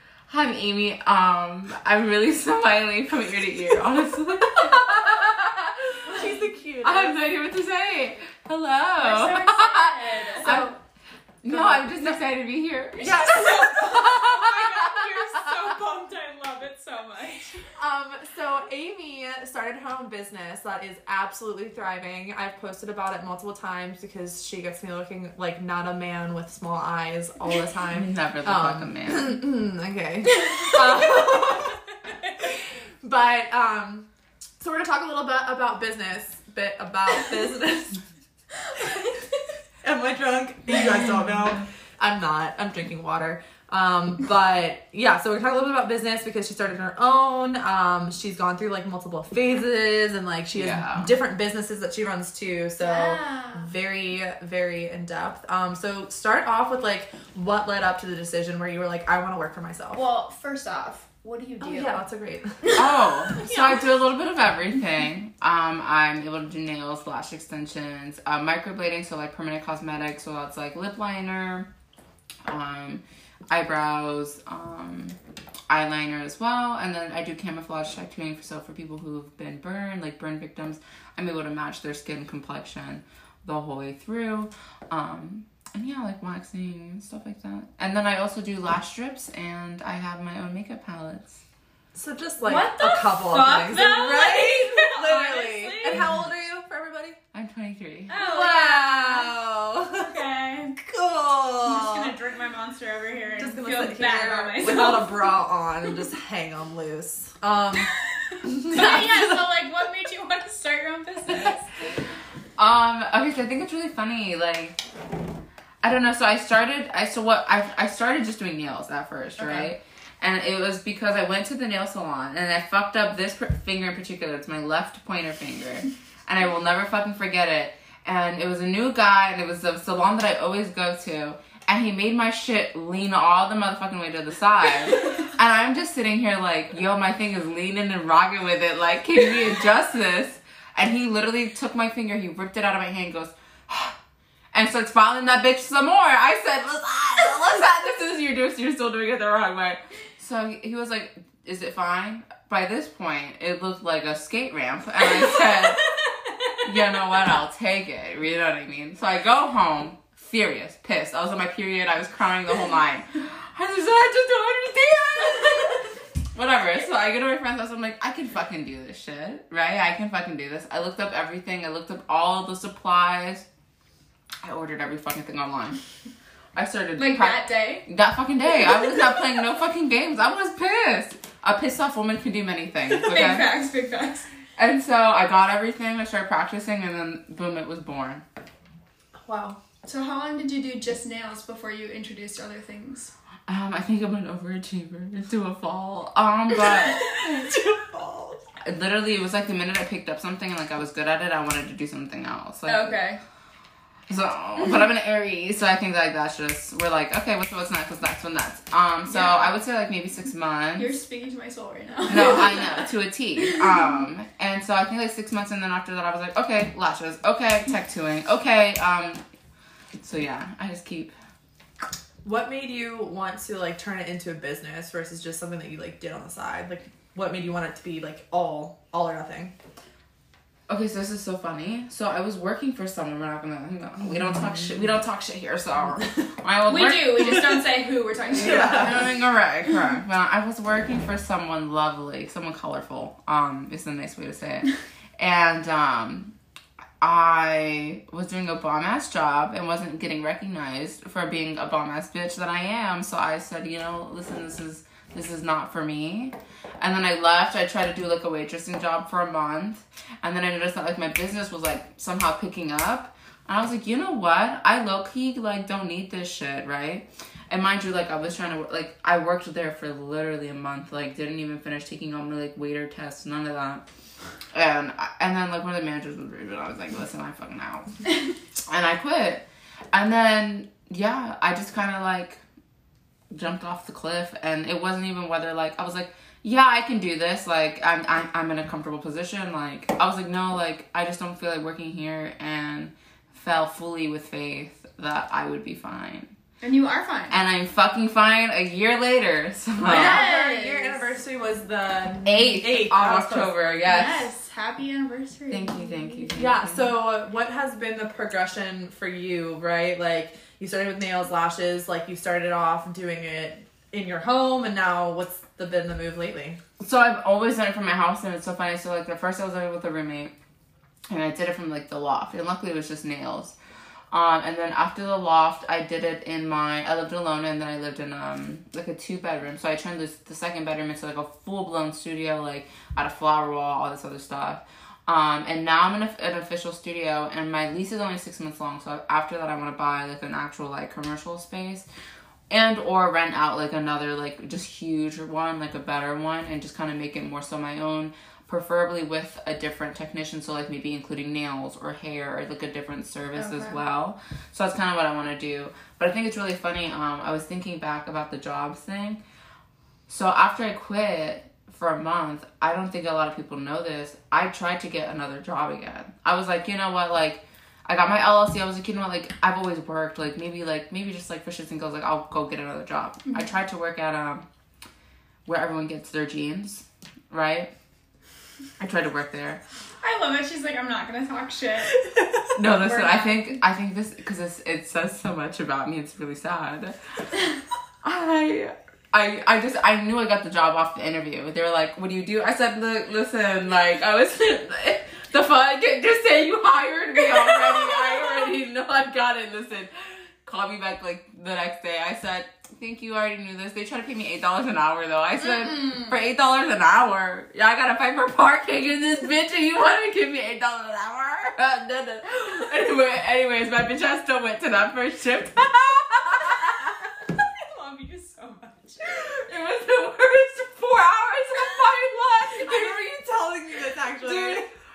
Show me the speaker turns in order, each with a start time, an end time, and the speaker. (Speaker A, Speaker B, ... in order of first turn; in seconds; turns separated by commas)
Speaker A: 0.3-6.2, Speaker B: 6.0-7.2, Speaker A: 6.8-10.7, Speaker C: 9.0-10.7, Speaker B: 10.4-10.8, Speaker A: 11.4-15.5, Speaker B: 11.5-11.9, Speaker B: 13.0-14.0, Speaker C: 13.0-17.7, Speaker B: 17.8-31.8, Speaker A: 27.9-29.4, Speaker B: 32.4-34.1, Speaker B: 34.6-38.0, Speaker C: 38.6-39.4, Speaker B: 39.8-60.0, Speaker A: 50.5-51.1, Speaker C: 52.8-53.7, Speaker C: 59.9-62.0, Speaker B: 61.6-62.8, Speaker C: 62.6-63.9, Speaker A: 62.7-71.7, Speaker A: 72.5-75.2, Speaker A: 75.7-91.4, Speaker B: 91.9-97.2, Speaker C: 92.4-96.0, Speaker A: 97.3-98.2, Speaker C: 98.1-99.3, Speaker B: 98.1-100.1, Speaker C: 100.0-100.8, Speaker B: 100.8-102.1, Speaker C: 101.6-105.3, Speaker B: 103.4-107.9, Speaker C: 108.0-112.0, Speaker B: 108.4-109.3, Speaker A: 108.8-109.2, Speaker A: 112.6-114.8, Speaker A: 115.8-143.9, Speaker C: 119.4-119.7, Speaker A: 144.5-155.8, Speaker C: 155.8-156.5, Speaker A: 156.6-173.4, Speaker A: 174.4-175.8, Speaker A: 176.5-183.5, Speaker C: 176.9-177.8, Speaker C: 182.9-184.3, Speaker A: 184.6-188.2, Speaker B: 189.2-189.6, Speaker C: 189.8-193.1, Speaker A: 193.5-197.2, Speaker B: 197.5-198.4, Speaker A: 198.6-203.0, Speaker C: 202.7-203.2, Speaker A: 204.1-210.9, Speaker C: 209.1-209.6, Speaker C: 210.8-213.6, Speaker A: 212.1-219.2, Speaker A: 220.0-221.1, Speaker B: 222.2-229.5, Speaker A: 230.7-237.6, Speaker C: 236.7-239.1, Speaker A: 238.3-246.3, Speaker B: 238.4-238.9, Speaker A: 247.0-273.8, Speaker A: 274.5-277.9, Speaker A: 278.7-282.4, Speaker A: 283.3-296.3, Speaker C: 296.6-297.4, Speaker A: 297.3-300.2, Speaker C: 299.8-301.1, Speaker B: 299.8-303.5, Speaker A: 302.2-304.3, Speaker C: 303.8-306.3, Speaker A: 305.5-306.9, Speaker B: 306.3-316.6, Speaker A: 316.8-320.3, Speaker A: 321.1-323.6, Speaker A: 324.1-341.9, Speaker A: 342.5-359.2, Speaker C: 353.4-353.8, Speaker A: 360.1-374.4, Speaker C: 373.2-373.5, Speaker A: 375.4-377.7, Speaker A: 378.8-379.6, Speaker C: 380.0-383.6, Speaker A: 382.5-386.9, Speaker A: 388.0-417.1, Speaker C: 417.5-419.4, Speaker A: 419.0-423.2, Speaker C: 421.6-421.9, Speaker B: 422.6-424.7, Speaker A: 424.2-424.7